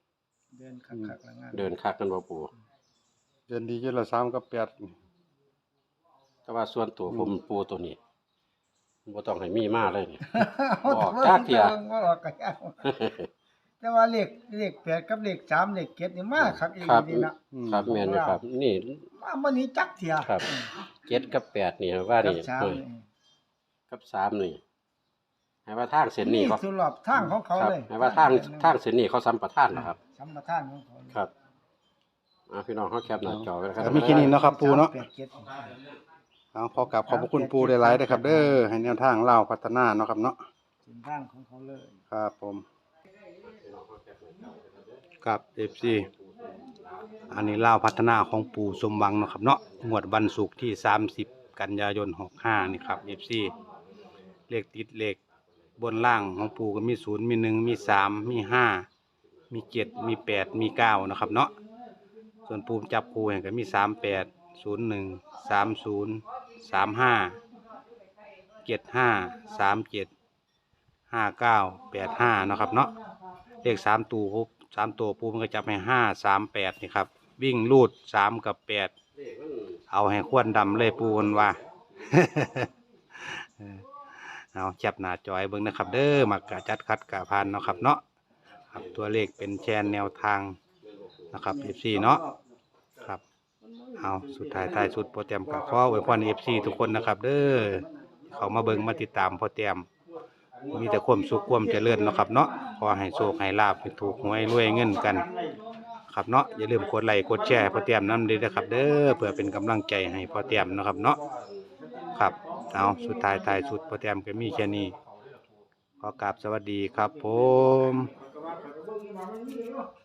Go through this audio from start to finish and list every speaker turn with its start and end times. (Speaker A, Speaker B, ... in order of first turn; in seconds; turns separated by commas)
Speaker A: 0.5-1.7, Speaker B: 1.5-2.5, Speaker C: 3.5-4.9, Speaker B: 6.5-8.0, Speaker B: 9.1-11.8, Speaker A: 10.3-13.0, Speaker B: 12.8-13.3, Speaker A: 13.8-18.4, Speaker B: 16.4-19.1, Speaker C: 17.5-17.9, Speaker A: 19.1-20.7, Speaker B: 21.1-22.8, Speaker A: 22.2-23.0, Speaker B: 23.9-24.6, Speaker B: 25.6-26.6, Speaker A: 26.2-28.8, Speaker B: 27.5-30.0, Speaker A: 29.7-31.2, Speaker B: 32.5-34.4, Speaker C: 33.2-35.0, Speaker A: 33.8-35.8, Speaker C: 36.5-40.4, Speaker A: 37.0-38.6, Speaker A: 40.8-42.0, Speaker C: 42.1-42.6, Speaker B: 43.4-45.0, Speaker C: 45.2-46.1, Speaker B: 46.0-46.5, Speaker C: 47.3-53.5, Speaker C: 54.5-55.2, Speaker C: 55.8-58.9, Speaker C: 59.5-61.5, Speaker C: 62.5-67.4, Speaker C: 68.6-70.1, Speaker C: 71.1-72.9, Speaker C: 73.6-78.9, Speaker B: 79.2-79.8, Speaker C: 79.9-88.0, Speaker B: 80.6-81.7, Speaker C: 88.7-90.6, Speaker B: 90.9-91.3, Speaker C: 91.3-92.2, Speaker A: 91.5-92.4, Speaker A: 93.6-95.0, Speaker C: 94.0-99.9, Speaker B: 95.8-97.0, Speaker A: 97.8-98.8, Speaker A: 100.6-102.2, Speaker C: 100.7-105.3, Speaker A: 104.0-105.6, Speaker C: 106.1-111.2, Speaker A: 112.0-113.8, Speaker C: 112.1-115.0, Speaker C: 116.0-118.1, Speaker A: 117.3-119.9